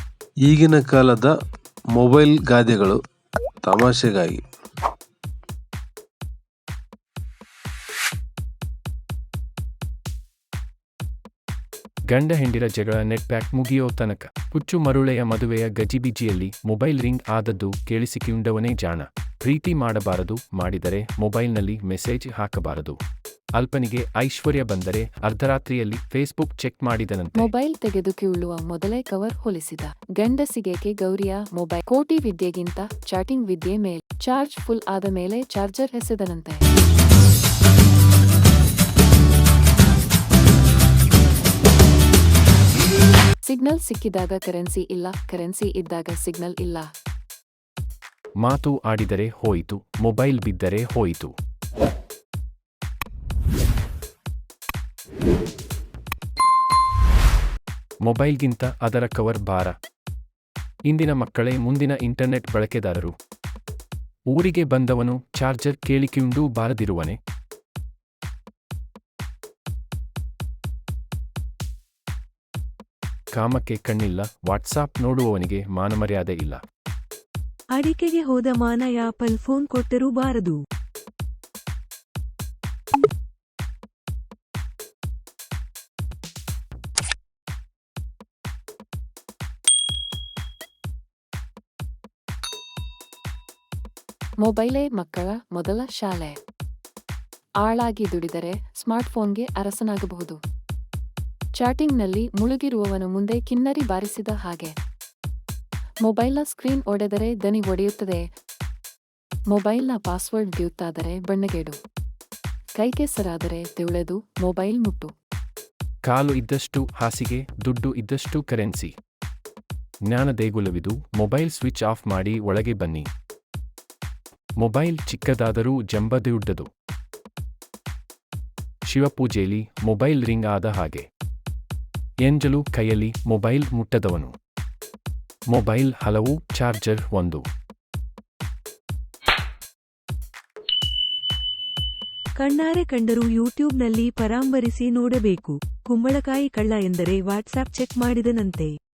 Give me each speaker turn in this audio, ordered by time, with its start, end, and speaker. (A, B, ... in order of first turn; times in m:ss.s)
0:00.4-0:01.3 A
0:01.9-0:03.0 A
0:03.6-0:04.4 A
0:12.1-0:23.0 B
0:23.6-0:27.5 B
0:27.4-0:36.6 C
0:43.5-0:46.9 C
0:48.4-0:51.3 B
0:58.0-0:59.8 B
1:00.9-1:03.1 B
1:04.3-1:07.2 B
1:13.3-1:16.6 B
1:17.7-1:20.6 D
1:34.4-1:36.3 C
1:37.6-1:40.4 C
1:41.6-1:44.7 C
1:46.1-1:48.2 C
1:49.5-1:51.8 C
1:52.8-1:55.1 C
1:56.1-1:58.9 B
2:00.1-2:03.1 B
2:04.6-2:06.7 B
2:08.9-2:11.0 B
2:12.2-2:14.3 B
2:15.5-2:17.4 B
2:22.4-2:28.7 D